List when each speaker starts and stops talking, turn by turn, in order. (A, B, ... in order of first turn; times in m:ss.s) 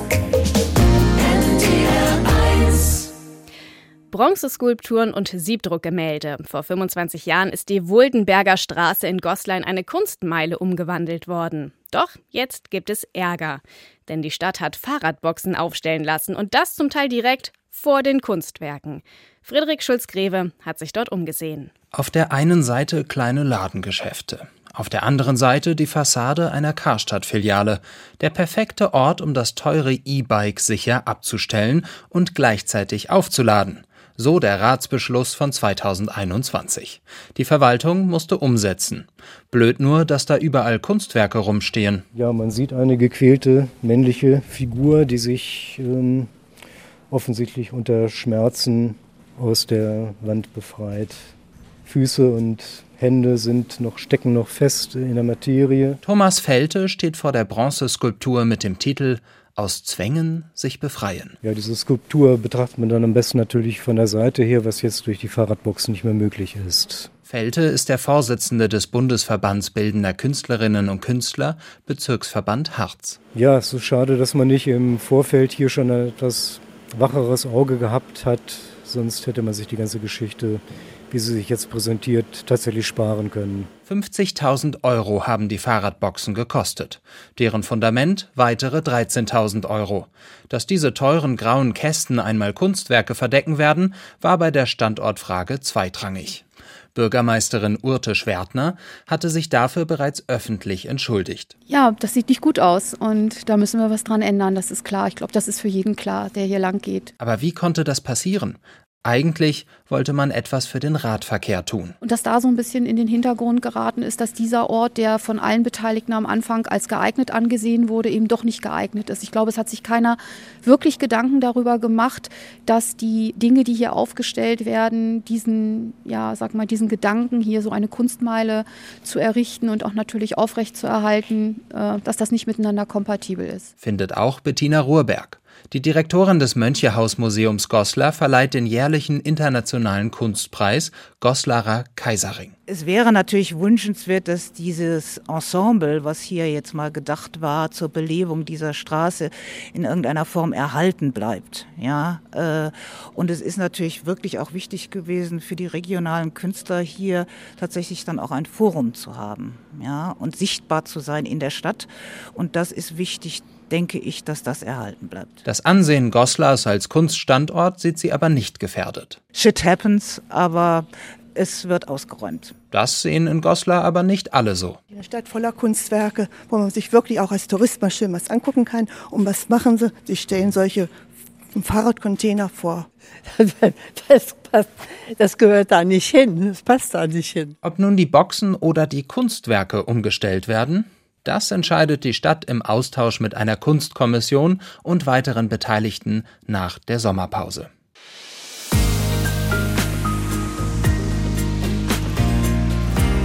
0:04.1-0:21.7 A
0:21.9-0:42.0 B
0:42.1-0:46.3 C
0:47.1-0:51.3 C
0:51.8-0:56.0 C
0:56.0-1:01.4 B
1:01.4-1:07.1 C
1:07.3-1:13.2 B
1:13.3-1:23.7 C
1:23.9-1:36.4 B
1:36.9-1:41.5 B
1:41.7-1:47.1 D
1:47.2-1:52.0 B
1:52.0-2:13.7 D
2:13.8-2:22.5 B
2:22.7-2:45.4 E
2:45.4-2:49.2 B
2:49.3-2:52.5 E
2:52.7-2:54.8 B
2:54.9-3:00.9 F
3:01.5-3:02.9 F
3:03.4-3:04.7 G
3:05.2-3:07.5 G
3:07.6-3:17.7 B